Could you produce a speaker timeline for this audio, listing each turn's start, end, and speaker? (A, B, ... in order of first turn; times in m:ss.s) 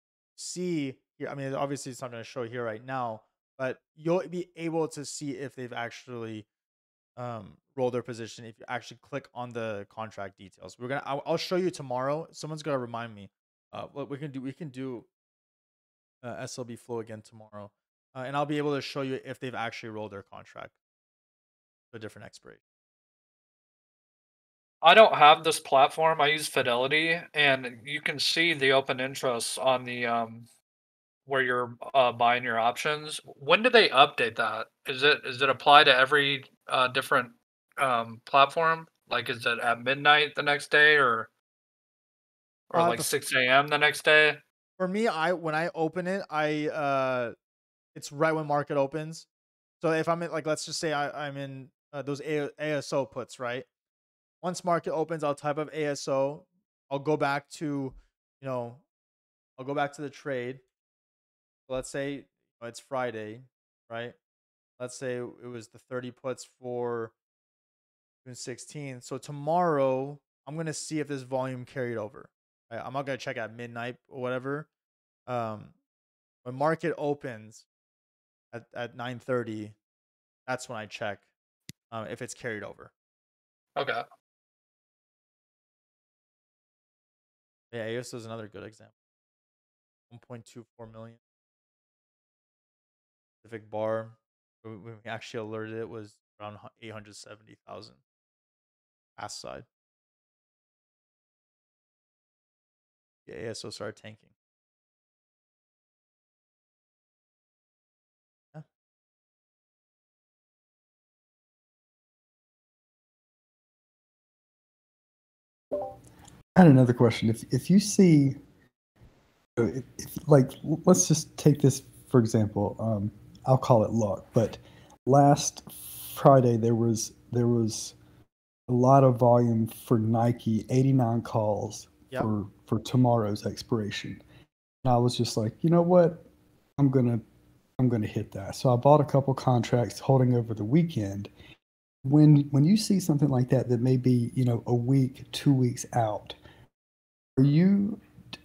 0:00.4-0:06.5 A
0:07.2-0:15.1 A
0:16.2-0:20.8 A
0:21.9-0:22.6 A
0:24.8-0:30.5 B
0:31.3-0:41.3 B
0:42.7-0:44.4 B
0:42.7-0:43.1 A
0:44.8-0:47.4 A
0:48.0-0:49.3 A
0:49.8-0:53.7 A
0:54.4-0:58.8 A
0:59.6-1:00.6 A
1:01.7-1:04.2 A
1:04.8-1:07.1 A
1:08.2-1:14.7 A
1:15.3-1:15.7 A
1:16.4-1:17.7 A
1:18.5-1:19.8 A
1:20.5-1:21.3 A
1:21.9-1:22.9 A
1:23.8-1:24.0 B
1:27.7-1:28.9 A
1:30.1-1:31.2 A
1:33.4-1:38.0 A
1:39.2-1:39.7 A
1:43.3-1:44.3 A
1:56.6-1:58.4 C
1:59.6-2:08.0 C
2:08.7-2:14.2 C
2:14.8-2:16.3 C
2:16.8-2:17.2 C
2:17.8-2:21.3 C
2:22.1-2:26.4 C
2:27.4-2:28.0 C